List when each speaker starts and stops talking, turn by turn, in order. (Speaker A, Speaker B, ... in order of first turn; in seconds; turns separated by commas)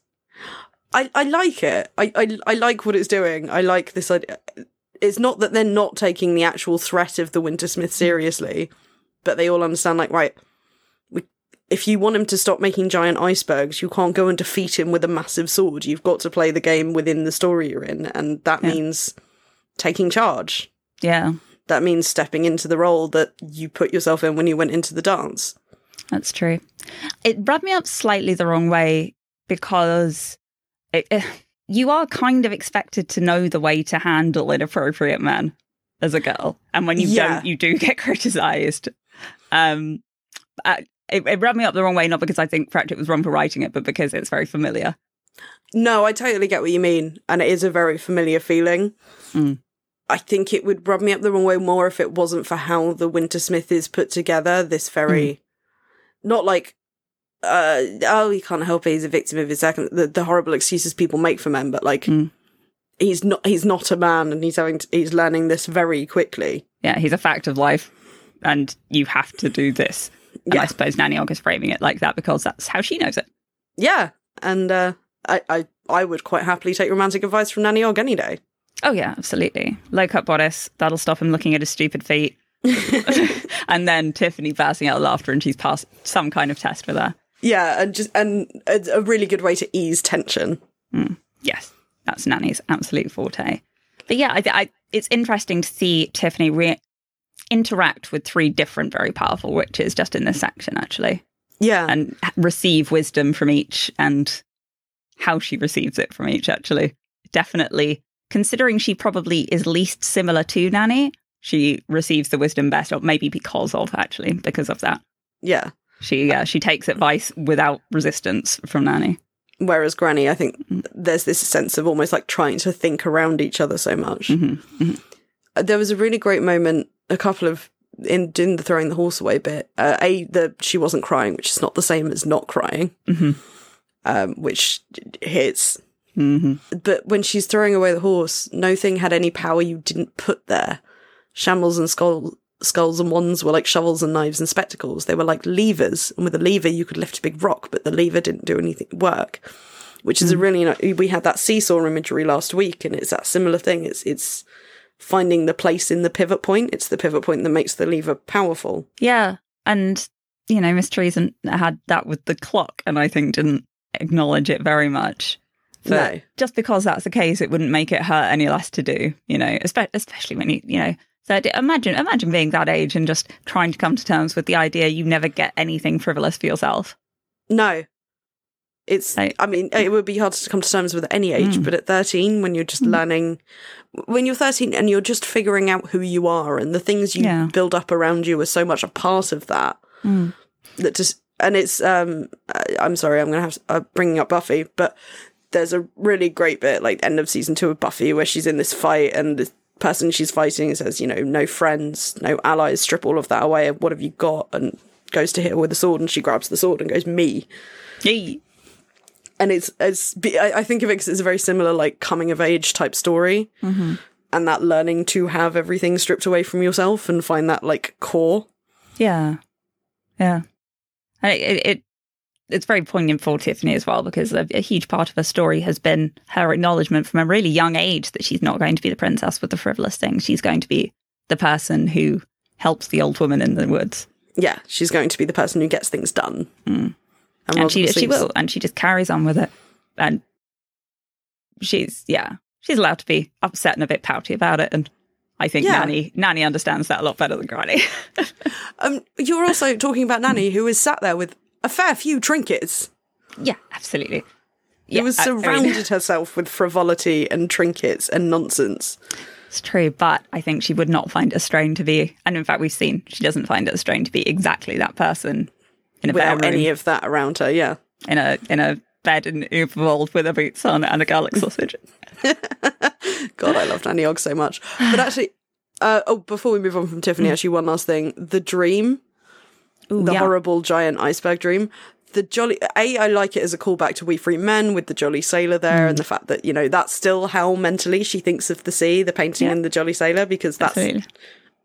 Speaker A: 0.9-8.7, Speaker A: 9.2-10.4, Speaker A: 11.1-19.1, Speaker A: 19.8-20.7, Speaker B: 21.0-21.4, Speaker A: 21.7-25.6, Speaker B: 26.1-26.6, Speaker B: 27.2-30.4, Speaker B: 30.9-38.9, Speaker A: 37.0-37.5, Speaker B: 39.5-40.0, Speaker B: 40.6-45.0, Speaker A: 45.7-48.9, Speaker B: 49.3-49.6, Speaker A: 50.1-55.4, Speaker A: 56.2-56.8, Speaker A: 57.4-62.1, Speaker A: 63.0-66.6, Speaker B: 66.8-67.9, Speaker B: 68.4-73.3, Speaker A: 73.8-78.4, Speaker B: 78.8-87.2, Speaker A: 82.7-83.3, Speaker A: 87.4-90.6, Speaker B: 90.9-96.8, Speaker B: 97.5-101.2, Speaker A: 101.6-102.0, Speaker B: 101.9-104.4, Speaker B: 105.2-115.0, Speaker A: 115.4-115.7, Speaker B: 116.0-119.2, Speaker A: 119.6-124.4, Speaker B: 124.3-125.0, Speaker A: 125.6-133.0, Speaker B: 133.1-133.4, Speaker A: 134.1-135.8, Speaker B: 136.2-136.6, Speaker A: 136.7-140.8, Speaker A: 141.3-149.4, Speaker A: 150.0-154.4, Speaker A: 155.0-158.9, Speaker B: 159.0-176.9, Speaker A: 165.9-166.2, Speaker A: 177.5-177.8, Speaker A: 178.9-183.4, Speaker B: 181.4-181.7, Speaker A: 183.9-189.8, Speaker B: 187.2-187.5, Speaker B: 190.0-190.3, Speaker A: 190.8-195.0, Speaker A: 195.5-207.5, Speaker B: 208.0-208.4, Speaker A: 209.4-213.5, Speaker B: 213.6-214.0, Speaker A: 214.3-218.5, Speaker B: 219.0-219.4, Speaker B: 220.2-220.4, Speaker B: 221.2-221.8, Speaker B: 222.5-234.1, Speaker A: 234.4-236.5, Speaker B: 236.7-236.9, Speaker A: 237.5-238.3, Speaker B: 237.6-240.2, Speaker B: 241.6-248.5, Speaker A: 245.6-245.9, Speaker A: 248.8-252.9, Speaker B: 253.4-254.3, Speaker B: 254.9-255.8, Speaker A: 254.9-259.0, Speaker B: 259.5-265.5, Speaker B: 266.0-266.7, Speaker A: 266.1-267.8, Speaker B: 268.1-271.8, Speaker A: 272.2-279.0, Speaker B: 279.9-280.3, Speaker A: 280.0-290.9, Speaker B: 285.7-286.0, Speaker B: 290.6-291.1